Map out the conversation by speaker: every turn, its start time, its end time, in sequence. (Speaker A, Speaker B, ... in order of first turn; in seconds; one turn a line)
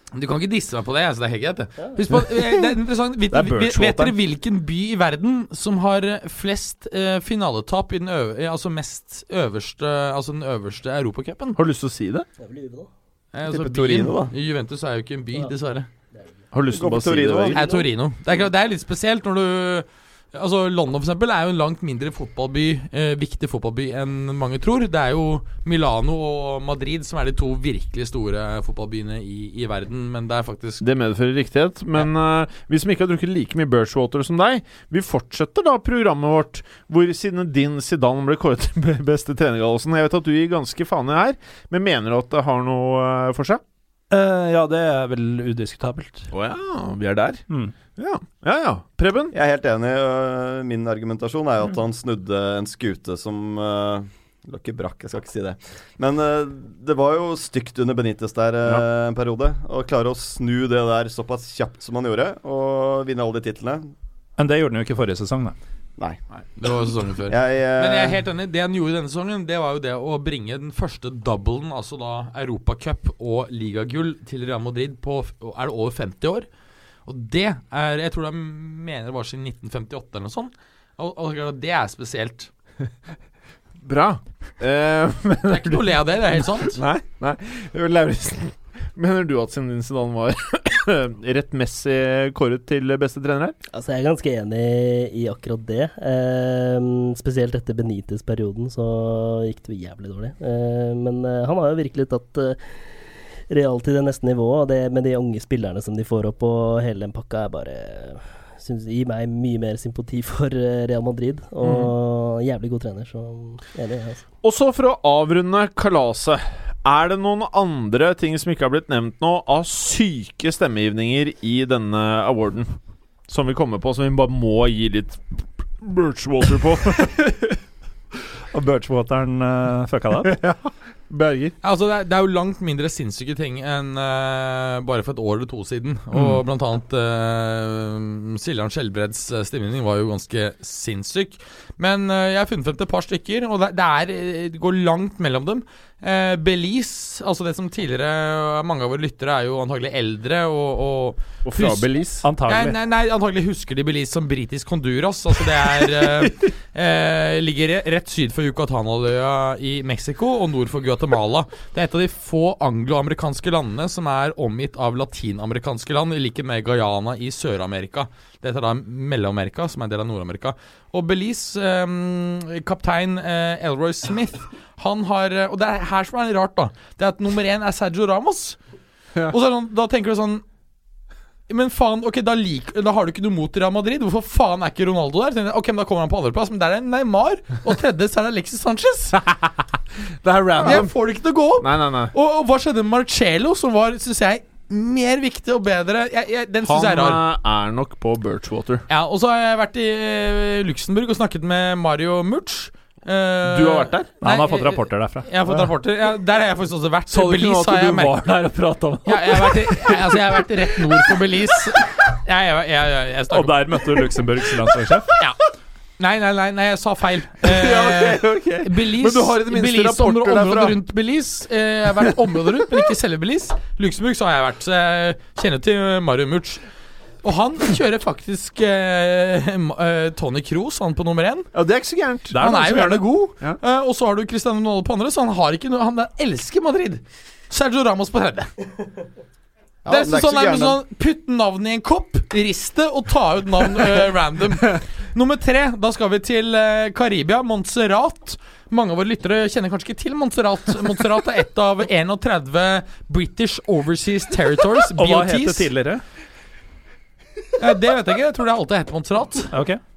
Speaker A: 0.1-11.6
Speaker B: 2.1-2.7
Speaker B: 3.3-4.2
Speaker B: 11.6-12.3
Speaker C: 12.4-12.9
Speaker A: 13.3-15.9
Speaker D: 13.4-14.3
Speaker B: 16.5-17.6
Speaker D: 16.7-17.6
Speaker A: 17.5-30.8
Speaker B: 30.8-43.6
Speaker E: 44.1-46.3
Speaker B: 46.3-49.3
Speaker E: 47.5-47.7
Speaker D: 49.3-63.9
Speaker E: 64.4-65.6
Speaker A: 66.3-76.5
Speaker D: 67.3-68.2
Speaker A: 77.1-82.5
Speaker B: 83.8-85.8
Speaker A: 85.5-86.8
Speaker B: 86.7-93.6
Speaker C: 93.7-102.7
Speaker C: 103.5-114.2
Speaker B: 111.6-111.9
Speaker B: 114.4-122.7
Speaker B: 123.3-127.2
Speaker E: 127.2-127.5
Speaker E: 128.5-130.4
Speaker B: 130.2-131.6
Speaker A: 131.6-151.9
Speaker B: 151.4-152.3
Speaker E: 152.2-152.8
Speaker A: 152.5-178.6
Speaker B: 155.8-156.3
Speaker A: 179.3-180.4
Speaker A: 181.5-189.2
Speaker B: 190.2-190.9
Speaker A: 190.6-197.2
Speaker B: 191.6-192.1
Speaker B: 196.6-198.8
Speaker A: 198.9-208.1
Speaker B: 203.5-204.1
Speaker E: 204.2-205.6
Speaker B: 207.1-211.1
Speaker A: 209.1-213.8
Speaker E: 213.3-215.1
Speaker A: 216.0-226.6
Speaker B: 217.4-220.8
Speaker B: 222.0-222.9
Speaker A: 227.2-231.5
Speaker B: 231.5-232.4
Speaker E: 232.3-233.0
Speaker A: 232.3-238.5
Speaker B: 232.9-233.6
Speaker D: 239.8-240.8
Speaker A: 239.9-255.7
Speaker E: 254.9-256.0
Speaker A: 257.6-259.5
Speaker E: 259.5-259.8